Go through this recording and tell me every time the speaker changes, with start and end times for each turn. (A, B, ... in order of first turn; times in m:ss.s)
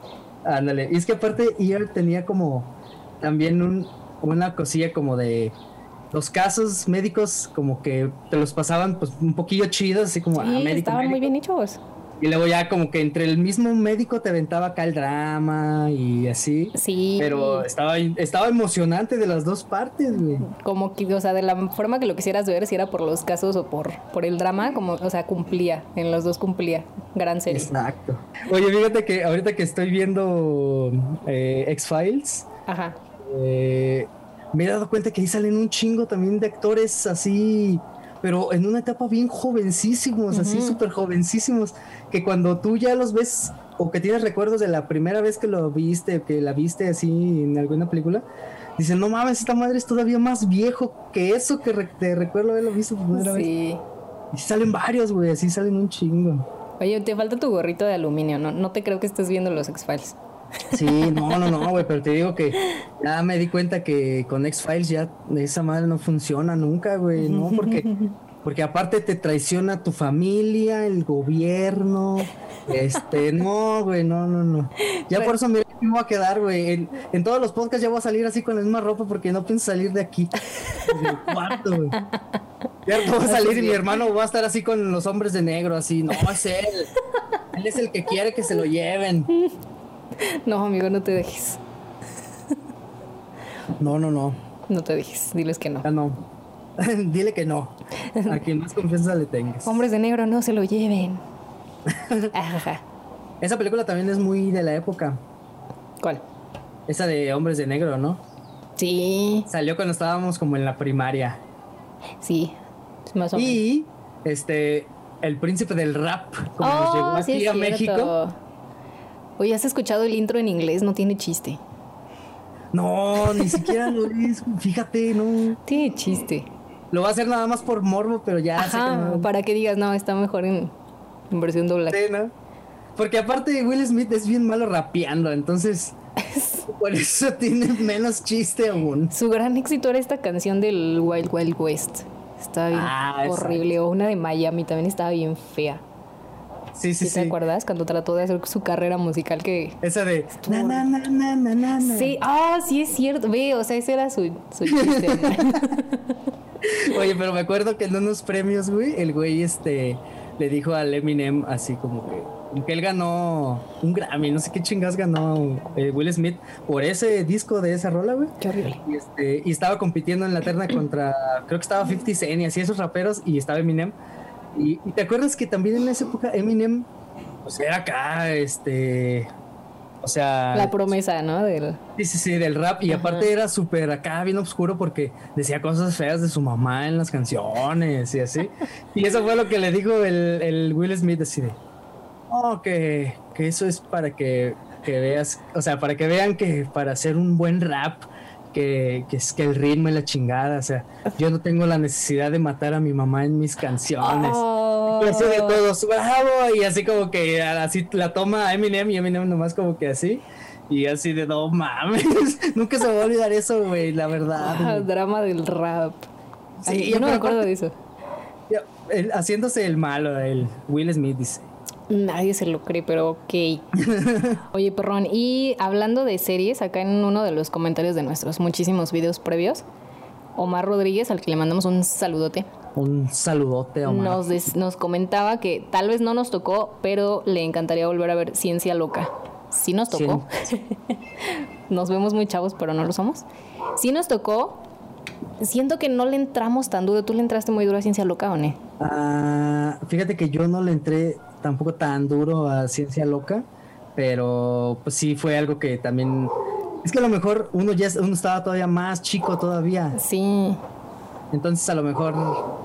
0:00.4-0:05.6 A
0:06.1-0:11.3 A
0:10.4-0:11.8 B
0:12.2-0:20.4 A
0:16.7-0:17.7 B
0:20.4-0:27.7 B
0:27.5-0:32.5 A
0:32.7-0:33.0 B
0:33.2-0:48.2 A
0:40.3-0:40.8 B
0:48.8-0:53.5 A
0:53.1-0:53.8 B
0:54.3-0:56.4 A
0:56.8-1:00.2 B
1:00.7-1:07.9 A
1:07.2-1:08.1 B
1:08.4-1:22.0 A
1:15.0-1:15.3 B
1:22.8-1:26.9 A
1:23.1-1:23.8 B
1:27.5-1:29.3 A
1:30.2-1:31.6 B
1:33.8-1:34.4 A
1:34.7-1:35.9 B
1:35.8-1:36.2 A
1:36.8-1:39.8 A
1:38.1-1:38.4 B
1:39.6-1:41.2 B
1:41.9-1:42.3 A
1:42.3-1:42.8 B
1:43.4-1:45.2 A
1:46.9-1:48.2 A
1:48.8-1:49.5 B
1:49.5-1:51.4 A
1:52.2-1:52.6 B
1:53.1-1:53.6 B
1:53.3-1:58.1 A
1:56.6-1:58.3 B
1:59.4-2:01.6 B
2:02.7-2:05.6 A
2:03.3-2:03.8 B
2:05.6-2:06.5 B
2:06.9-2:09.3 A
2:08.6-2:10.7 B
2:11.3-2:12.0 B
2:11.9-2:12.3 A
2:13.0-2:16.0 A
2:16.3-2:16.6 B
2:16.6-2:19.1 A
2:19.1-2:25.8 B
2:22.7-2:23.7 A
2:26.7-2:27.4 A
2:27.0-2:29.8 B
2:29.8-2:32.2 A
2:30.4-2:30.8 B
2:31.8-2:36.2 B
2:34.6-2:35.6 A
2:36.6-2:54.0 A
2:48.4-2:48.8 B
2:54.5-2:56.9 A
2:57.4-2:59.3 A
3:00.0-3:00.9 A
3:00.5-3:01.8 B
3:02.0-3:11.6 A
3:02.9-3:03.3 B
3:12.3-3:34.9 A
3:24.0-3:25.6 B
3:34.4-3:36.1 B
3:36.6-3:37.5 A
3:36.6-3:37.7 B
3:38.5-3:41.5 A
3:41.9-3:43.6 B
3:43.8-3:44.4 A
3:44.5-3:49.6 B
3:50.4-3:52.5 B
3:52.7-3:54.2 A
3:53.8-4:03.2 B
3:59.9-4:00.2 A
4:03.8-4:04.6 B
4:05.4-4:08.6 B
4:08.8-4:20.0 A
4:19.9-4:20.6 B
4:21.3-4:22.4 A